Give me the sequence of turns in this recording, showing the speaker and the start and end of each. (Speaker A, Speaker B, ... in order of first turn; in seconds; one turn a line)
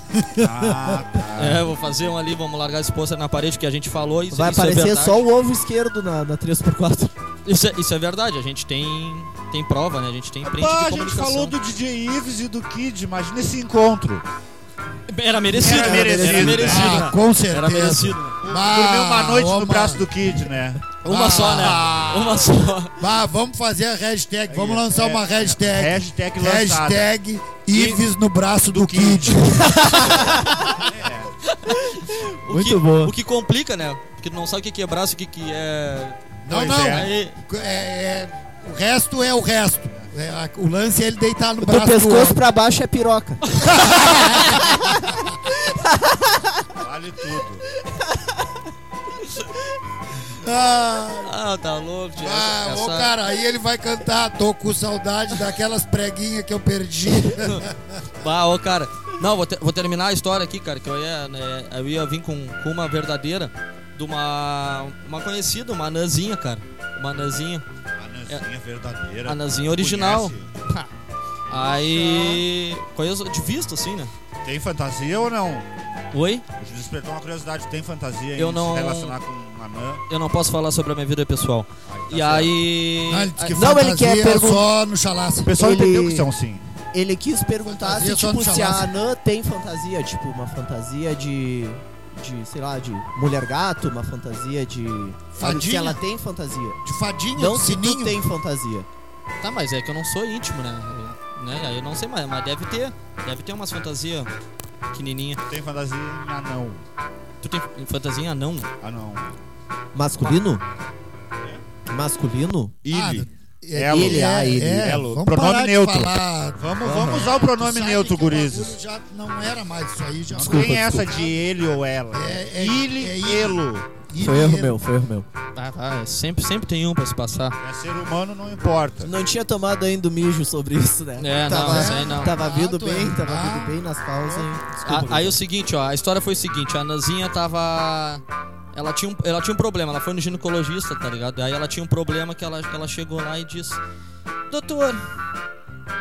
Speaker A: 0.2-1.0
Speaker B: 0.4-1.7
Speaker C: 1.4-5.2
Speaker D: 4.3-7.1
Speaker C: 7.5-11.5
Speaker B: 10.4-14.2
Speaker C: 15.1-18.4
Speaker B: 15.5-17.1
Speaker D: 15.6-16.9
Speaker A: 16.2-20.1
Speaker B: 18.4-22.5
Speaker C: 21.0-23.0
Speaker A: 21.1-22.1
Speaker A: 23.0-30.4
Speaker B: 24.5-27.1
Speaker B: 27.7-28.0
Speaker B: 28.7-31.3
Speaker D: 30.0-30.6
Speaker C: 31.5-36.2
Speaker D: 32.0-33.1
Speaker A: 36.5-42.4
Speaker B: 36.5-37.1
Speaker C: 36.9-37.4
Speaker D: 41.6-43.5
Speaker A: 43.6-45.2
Speaker D: 45.6-46.7
Speaker B: 46.7-47.6
Speaker D: 47.9-48.6
Speaker A: 50.3-51.3
Speaker C: 51.2-53.1
Speaker A: 52.2-58.0
Speaker C: 58.2-67.7
Speaker B: 68.0-70.5
Speaker C: 69.2-70.9
Speaker C: 71.5-74.1
Speaker B: 71.6-72.4
Speaker B: 74.4-75.7
Speaker C: 76.1-76.5
Speaker B: 76.6-80.0
Speaker C: 78.4-79.2
Speaker C: 80.1-83.6
Speaker B: 81.9-82.5
Speaker A: 83.1-85.6
Speaker D: 83.5-84.7
Speaker B: 85.4-86.7
Speaker D: 85.6-86.3
Speaker D: 86.9-96.8
Speaker A: 87.7-88.9
Speaker A: 95.3-96.0
Speaker A: 96.8-98.2
Speaker D: 97.3-98.9
Speaker C: 99.4-104.3
Speaker C: 104.9-105.4
Speaker B: 105.5-106.8
Speaker C: 107.4-108.7
Speaker B: 108.8-109.4
Speaker D: 109.9-110.6
Speaker D: 111.9-112.8
Speaker B: 112.8-118.8
Speaker A: 112.9-121.4
Speaker D: 113.9-114.9
Speaker D: 117.0-117.2
Speaker B: 120.3-123.9
Speaker D: 120.4-121.1
Speaker A: 122.1-124.8
Speaker D: 124.2-125.3
Speaker C: 125.5-127.6
Speaker B: 127.6-129.1
Speaker D: 129.0-135.4
Speaker C: 131.2-132.4
Speaker A: 131.6-134.5
Speaker C: 134.8-143.8
Speaker C: 144.5-145.1